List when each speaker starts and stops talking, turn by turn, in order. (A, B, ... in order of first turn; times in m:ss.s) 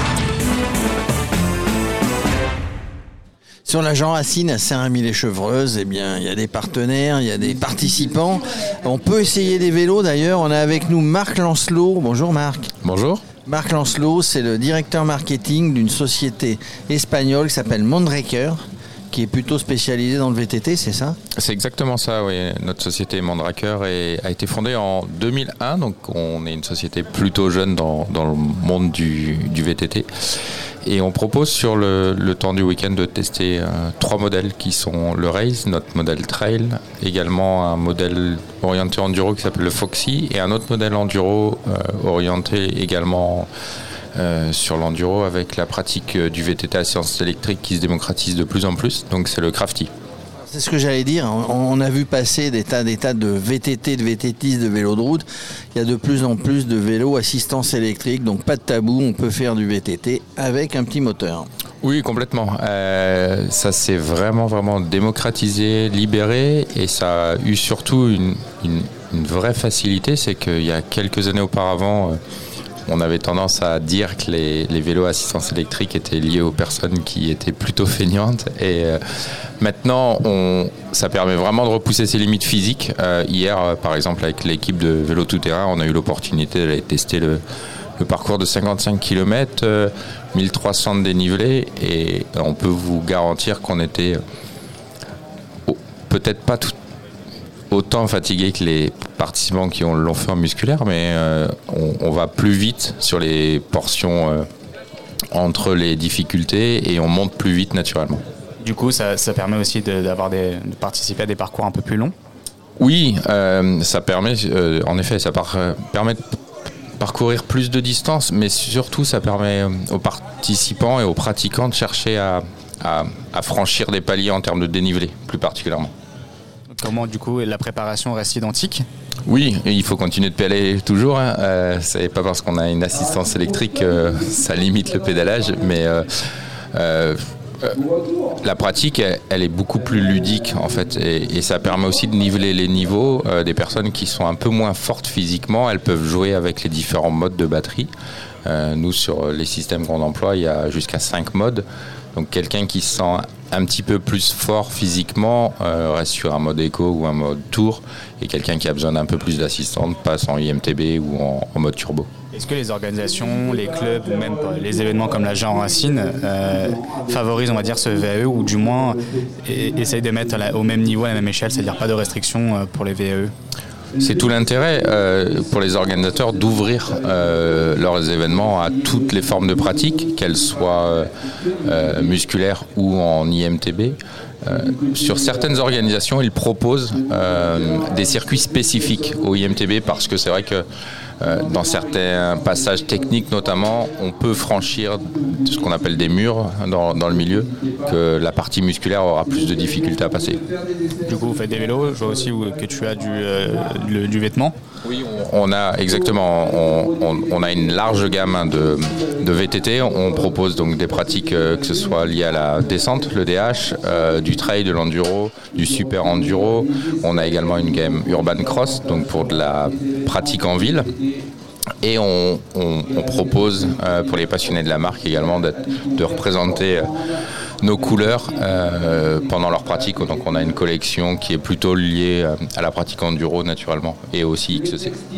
0:03.7-0:12.7 A
0:12.8-0:13.2 B
0:13.5-0:21.2 A
0:21.4-0:30.1 B
0:30.8-0:43.5 B
0:44.2-0:49.9 B
0:50.5-1:01.5 A
1:01.8-1:12.2 B
1:12.9-1:19.0 B
1:19.6-1:27.4 B
1:28.0-1:34.2 B
1:35.7-1:36.7 B
1:37.7-1:44.5 B
1:45.3-1:48.2 B
1:48.6-1:52.1 C
1:52.8-1:56.4 B
1:57.0-2:05.9 B
2:06.7-2:08.9 C
2:09.3-2:17.8 B
2:18.4-2:27.9 B
2:28.4-2:42.1 B
2:42.3-2:53.3 C
2:54.0-3:01.1 B
3:01.6-3:10.6 B
3:11.2-3:20.4 B
3:21.0-3:24.5 C
3:24.8-3:40.9 B
3:41.8-3:47.0 B
3:47.6-3:55.0 B